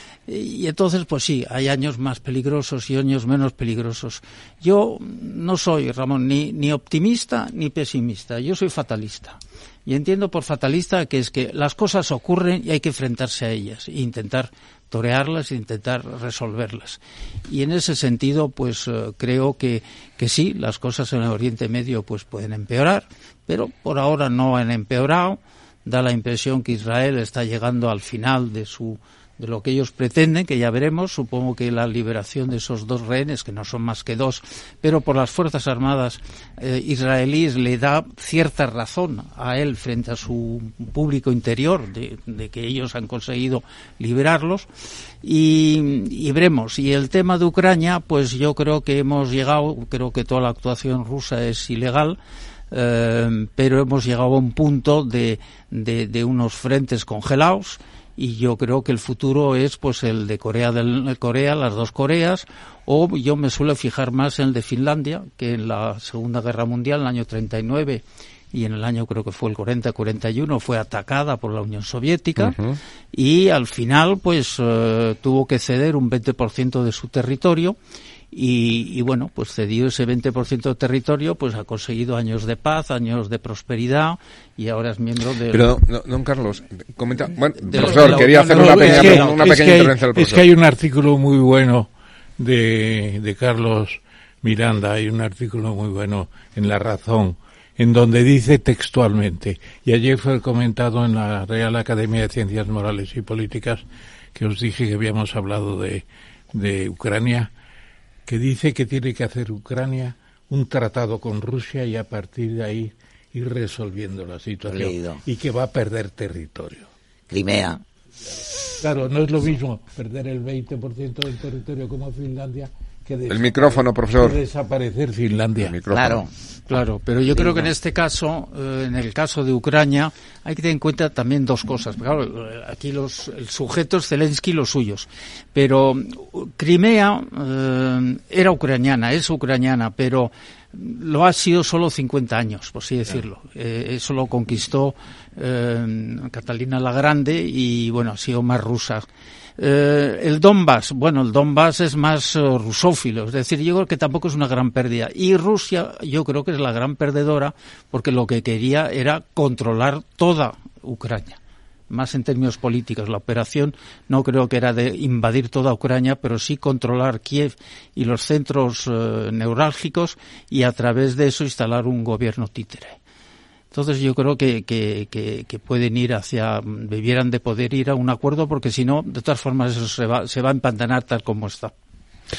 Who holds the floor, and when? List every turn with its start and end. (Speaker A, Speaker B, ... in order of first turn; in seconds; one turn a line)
Speaker A: 0.3-44.7
Speaker A: 45.2-52.2
Speaker A: 52.7-72.6
Speaker B: 72.4-72.8
Speaker A: 73.1-77.8
Speaker A: 78.3-85.7
Speaker B: 85.5-90.4
Speaker A: 87.6-89.7
Speaker C: 87.7-107.5
Speaker C: 108.2-116.9
Speaker D: 114.7-115.2
Speaker D: 117.3-117.8
Speaker C: 118.8-125.8
Speaker B: 123.3-124.4
Speaker B: 125.6-126.2
Speaker D: 125.9-126.3
Speaker A: 126.7-161.4
Speaker D: 127.3-127.7
Speaker A: 161.9-173.0
Speaker A: 173.7-181.7